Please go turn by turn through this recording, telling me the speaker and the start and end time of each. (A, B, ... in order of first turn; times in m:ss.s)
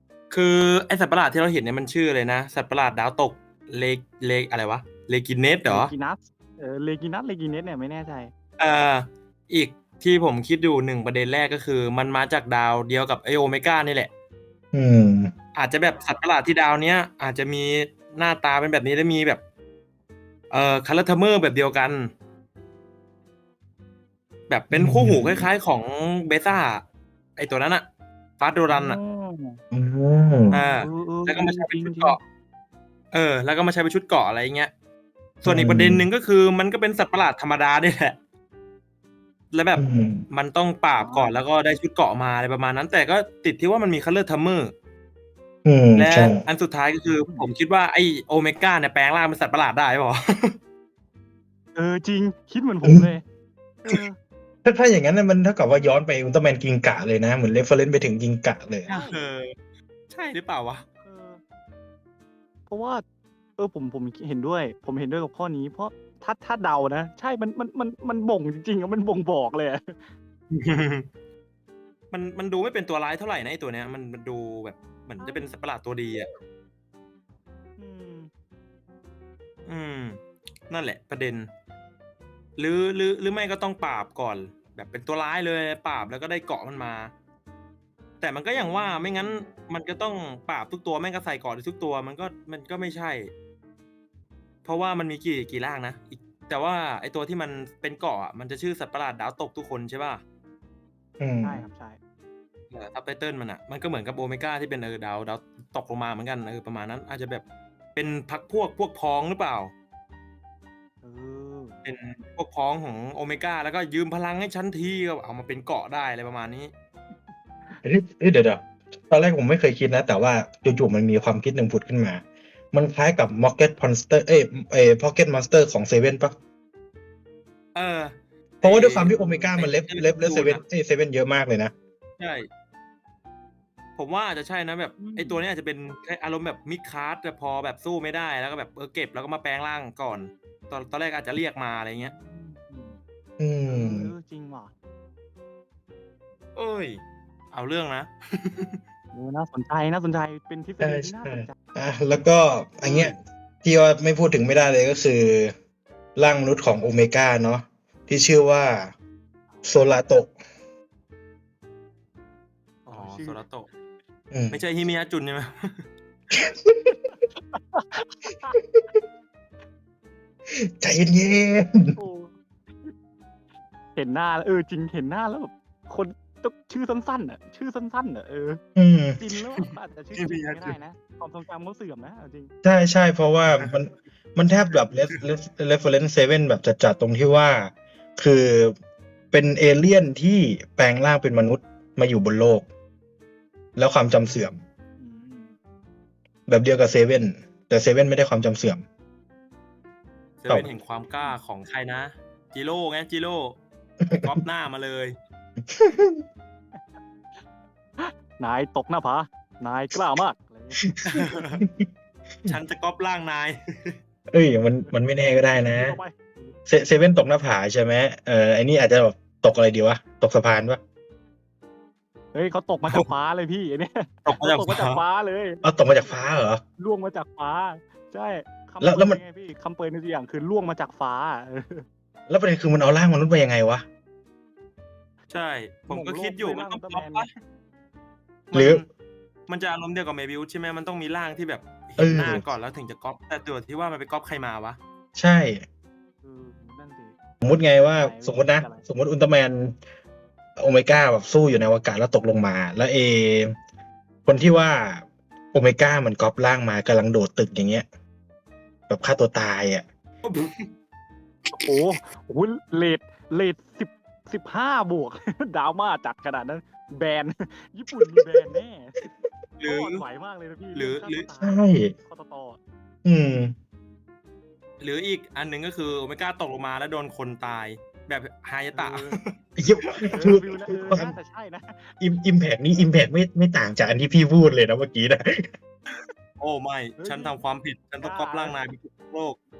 0:00.3-0:05.9 A
0:05.7-0:08.3 B
0:08.6-0:14.1 A
0:14.7-0:15.3 C
0:15.5-0:19.4 A
0:20.5-0:22.1 A
0:24.5-0:26.8 A
0:24.7-0:25.5 C
0:27.4-0:27.9 A
0:28.4-0:29.0 A
0:28.7-0:29.6 B
0:29.7-0:30.6 C
0:30.5-0:32.2 A
0:30.5-0:32.2 B
0:33.1-0:34.7 A
0:35.4-0:38.2 A
0:35.4-0:36.1 C
0:39.5-0:44.7 A
0:39.8-0:40.2 C
0:41.0-0:41.4 B
0:45.6-0:46.4 C
0:46.0-0:50.6 A
0:51.8-0:53.2 B
0:52.8-0:53.1 C
0:53.8-0:54.2 B
0:54.6-0:58.9 C
0:58.9-0:59.2 B
0:58.9-0:59.5 A
1:00.1-1:00.8 A
1:01.0-1:01.4 B
1:02.7-1:03.0 B
1:03.6-1:10.1 B
1:10.5-1:11.1 A
1:12.1-1:16.3 A
1:15.2-1:15.4 B
1:17.8-1:18.3 B
1:19.6-1:21.5 A
1:22.6-1:27.1 A
1:28.2-1:33.3 A
1:28.5-1:29.5 B
1:34.6-1:40.2 A
1:41.2-1:41.6 C
1:41.4-1:42.0 B
1:42.7-1:49.7 A
1:51.0-1:51.8 B
1:51.8-1:56.7 A
1:57.8-2:06.3 C
2:07.7-2:10.6 A
2:08.6-2:11.7 C
2:09.1-2:09.5 B
2:12.2-2:12.5 A
2:14.0-2:22.1 A
2:15.0-2:15.4 B
2:22.1-2:23.0 B
2:23.4-2:24.1 C
2:23.7-2:24.7 B
2:26.5-2:28.8 A
2:29.1-2:31.5 B
2:30.8-2:35.5 C
2:32.8-2:33.2 A
2:36.2-2:38.9 C
2:39.5-2:40.0 B
2:39.6-2:40.3 C
2:42.8-2:43.4 B
2:42.9-2:43.7 A
2:44.3-2:44.6 C
2:44.5-2:45.9 A
2:46.3-2:46.9 C
2:47.0-2:48.6 B
2:50.5-2:52.0 C
2:52.0-2:52.9 B
2:54.0-2:58.6 B
2:58.8-2:59.2 C
2:59.2-3:02.5 B
3:00.1-3:00.8 A
3:02.6-3:08.8 C
3:09.3-3:12.6 C
3:13.8-3:14.6 C
3:15.0-3:15.5 B
3:16.5-3:18.8 C
3:20.4-3:23.6 A
3:24.0-3:24.4 C
3:24.2-3:25.2 A
3:25.6-3:26.2 C
3:26.7-3:27.4 B
3:28.0-3:30.8 B
3:30.8-3:31.9 C
3:31.0-3:31.6 A
3:32.4-3:34.0 A
3:34.3-3:36.0 C
3:35.5-3:36.6 B
3:36.7-3:40.8 C
3:42.3-3:46.3 B
3:44.2-3:45.0 A
3:45.6-3:46.6 C
3:46.8-3:51.8 B
3:48.8-3:49.2 C
3:52.3-3:53.8 C
3:55.3-3:57.3 A
3:55.9-3:57.3 B
3:58.5-3:58.8 A
3:58.5-3:58.8 C
3:59.5-4:04.8 A
4:02.0-4:02.4 C
4:05.2-4:05.6 C
4:06.2-4:07.2 B
4:07.4-4:09.8 C
4:08.0-4:08.8 B
4:10.6-4:13.6 C
4:14.2-4:17.8 C
4:18.9-4:19.8 C
4:20.2-4:20.7 A
4:21.5-4:28.9 B
4:29.6-4:30.0 A
4:29.6-4:32.6 B
4:30.7-4:31.3 A
4:31.4-4:31.9 C
4:33.0-4:33.5 C
4:34.8-4:40.0 A
4:38.7-4:39.2 B
4:39.6-4:41.1 C
4:40.1-4:41.9 B
4:42.0-4:45.5 C
4:45.9-4:49.4 A
4:47.0-4:47.4 B
4:48.0-4:48.6 B